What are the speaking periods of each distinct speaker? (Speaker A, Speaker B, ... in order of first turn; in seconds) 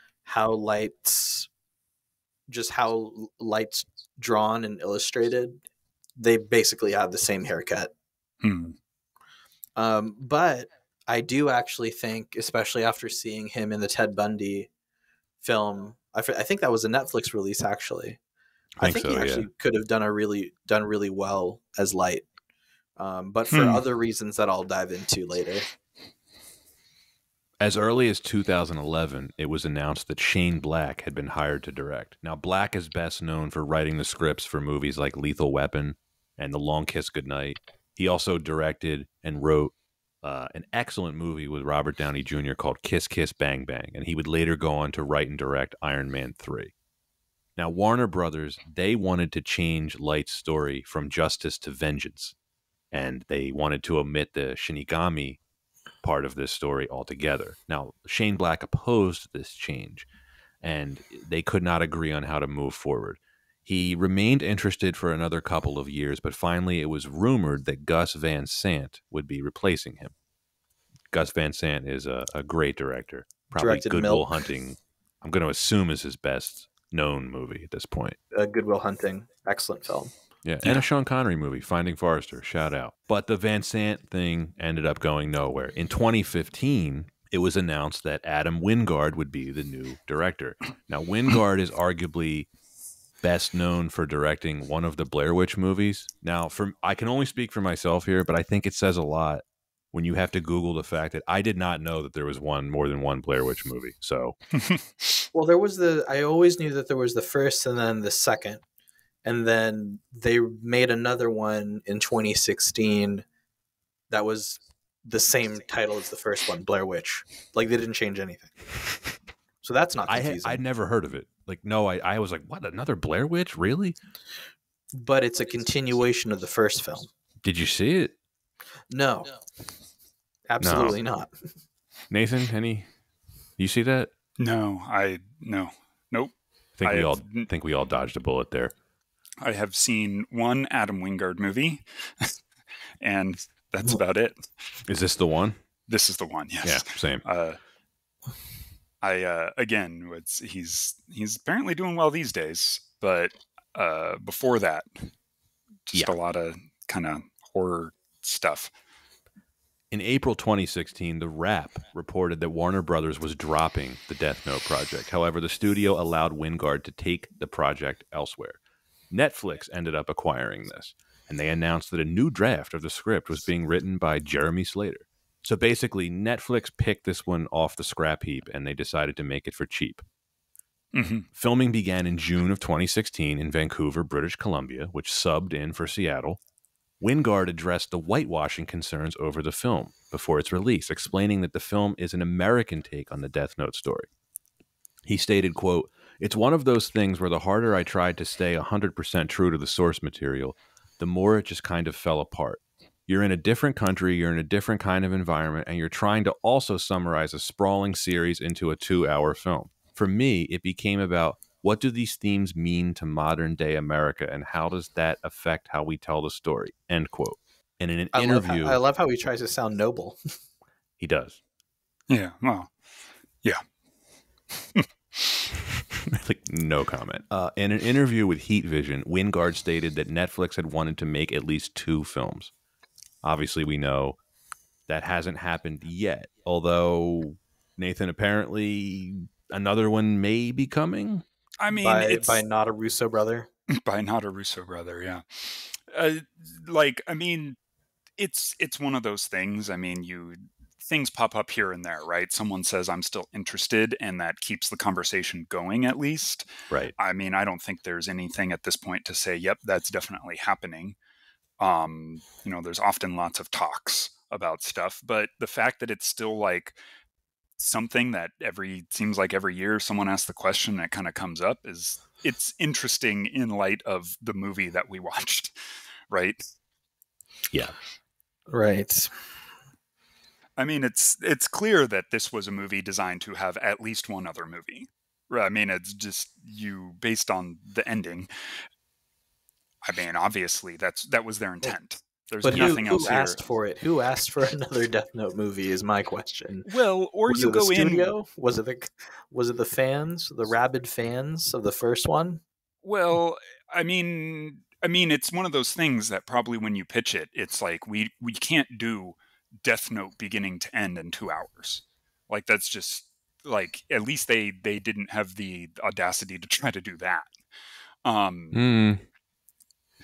Speaker A: 0.2-1.5, 2.5-5.6, 6.2-7.9, 9.8-14.7, 15.4-18.2, 18.8-22.3, 23.0-25.7, 73.6-74.4, 78.3-80.1, 105.3-108.6, 109.2-113.2, 114.1-118.5, 119.6-120.6, 124.9-127.1, 128.9-129.3, 130.5-131.3, 218.1-220.2, 241.7-243.5, 278.5-279.1, 292.4-296.7, 297.3-302.4
Speaker B: 8.4-8.8, 23.5-23.8, 104.5-105.3, 134.4-136.3, 136.8-137.5, 139.4-142.3, 143.0-144.4, 145.9-147.6, 149.0-155.1, 155.9-158.7, 180.9-181.3, 222.1-222.7, 224.8-225.5, 241.6-242.4, 243.8-247.6, 248.2-256.5, 257.0-261.0, 261.6-266.8, 267.6-275.5, 276.1-276.4, 280.6-288.3, 289.8-293.4, 296.7-298.1, 302.8-317.3, 318.1-318.6
Speaker C: 18.8-19.5, 27.6-46.7, 47.6-52.4, 52.9-55.4, 56.0-60.1, 60.6-70.1, 71.1-78.2, 80.4-92.5, 93.2-104.4, 120.1-124.0, 127.4-128.1, 130.6-131.0, 132.1-132.9, 133.6-134.1, 136.8-138.7, 144.9-145.6, 146.6-147.2, 159.9-168.6, 169.1-180.0, 181.3-186.4, 187.0-194.1, 195.1-218.8, 221.0-221.4, 226.0-232.5, 233.2-234.2, 234.9-241.2, 292.5-292.8, 318.5-319.0